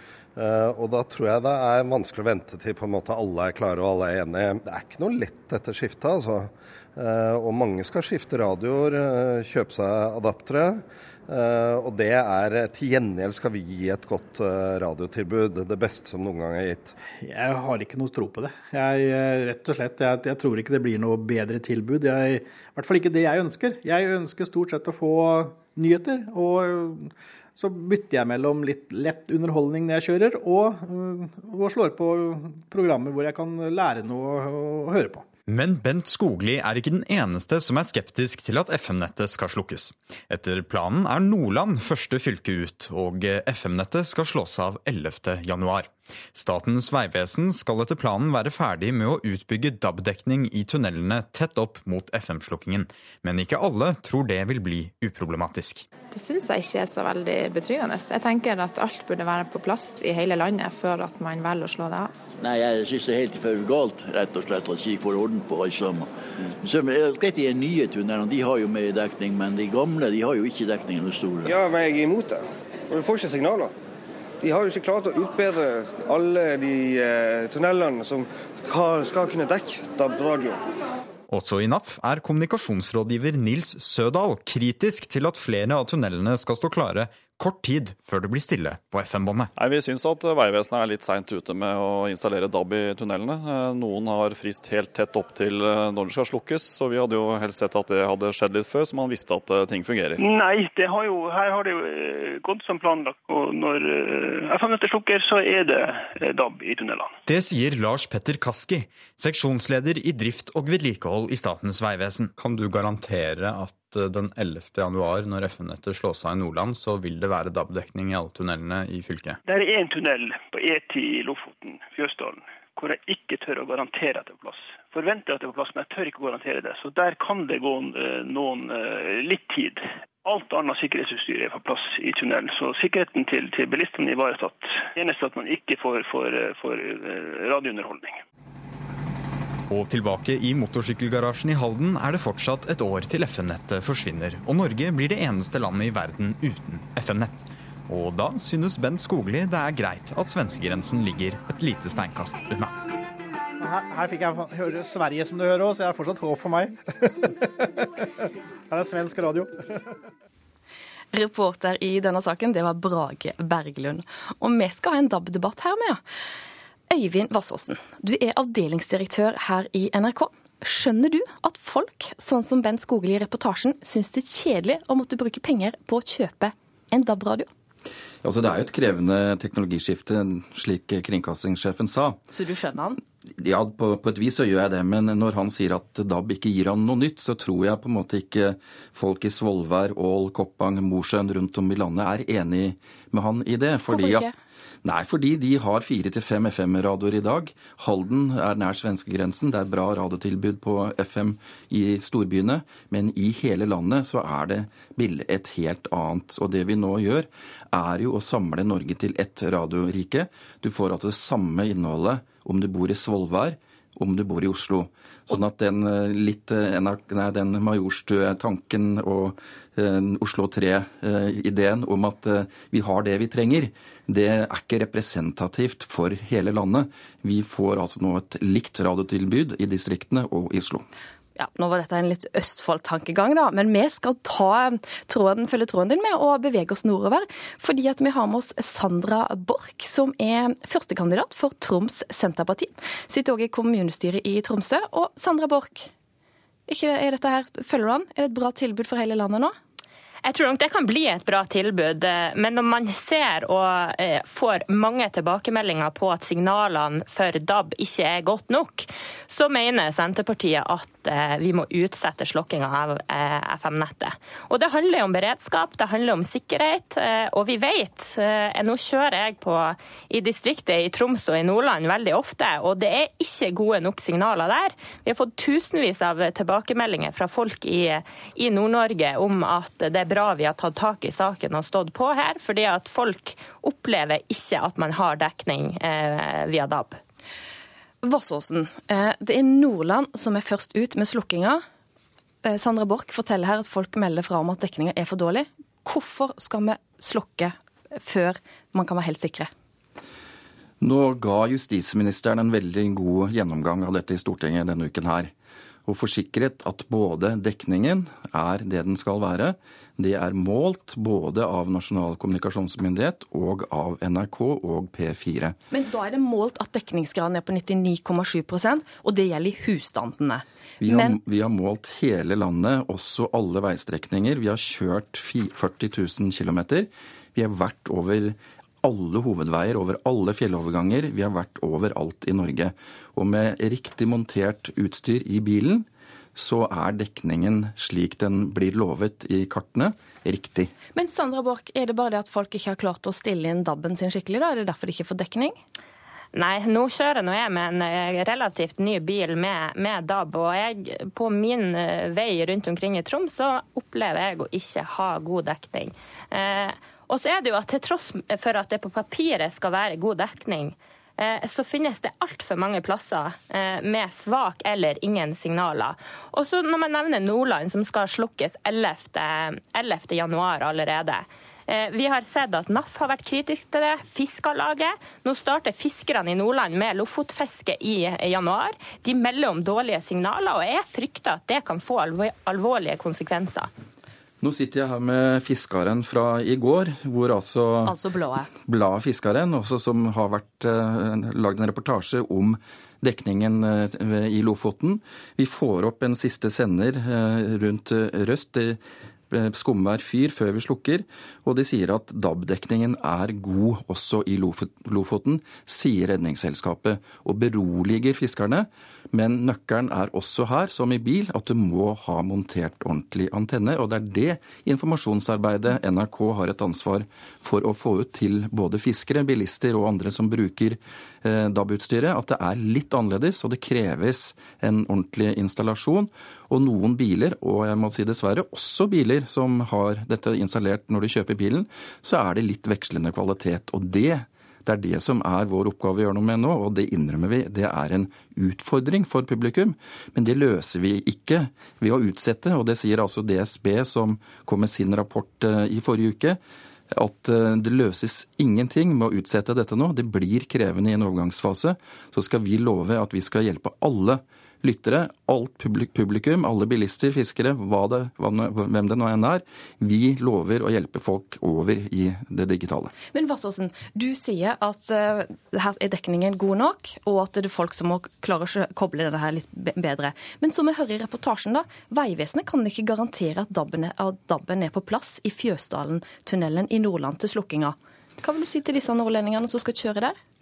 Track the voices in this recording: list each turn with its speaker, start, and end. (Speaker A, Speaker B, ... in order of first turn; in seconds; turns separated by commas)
Speaker A: 0.3-16.9, Speaker B: 17.2-35.3, Speaker C: 35.5-55.9, Speaker D: 56.1-62.1, Speaker E: 62.4-66.1, Speaker E: 66.6-71.5, Speaker F: 71.4-73.7, Speaker F: 74.4-80.6, Speaker C: 81.3-89.5, Speaker G: 89.6-100.2, Speaker H: 100.2-107.1, Speaker C: 107.2-119.4, Speaker H: 119.5-138.2, Speaker C: 139.7-152.7, Speaker B: 153.6-156.8, Speaker B: 158.7-159.6, Speaker I: 161.1-166.0, Speaker I: 166.9-177.5, Speaker J: 178.2-182.2, Speaker I: 182.3-183.0, Speaker J: 183.4-194.3, Speaker I: 193.9-194.3, Speaker J: 194.8-230.8, Speaker I: 231.3-245.9, Speaker I: 246.7-249.6, Speaker K: 250.2-287.0, Speaker I: 288.0-291.6, Speaker I: 292.4-299.5, Speaker J: 300.8-305.3, Speaker J: 305.9-315.6, Speaker I: 315.7-321.2, Speaker J: 320.8-340.7, Speaker I: 340.9-345.6, Speaker K: 346.3-383.7, Speaker J: 384.4-387.9, Speaker I: 387.9-388.5, Speaker J: 388.6-446.4, Speaker J: 446.9-462.9, Speaker I: 463.1-480.2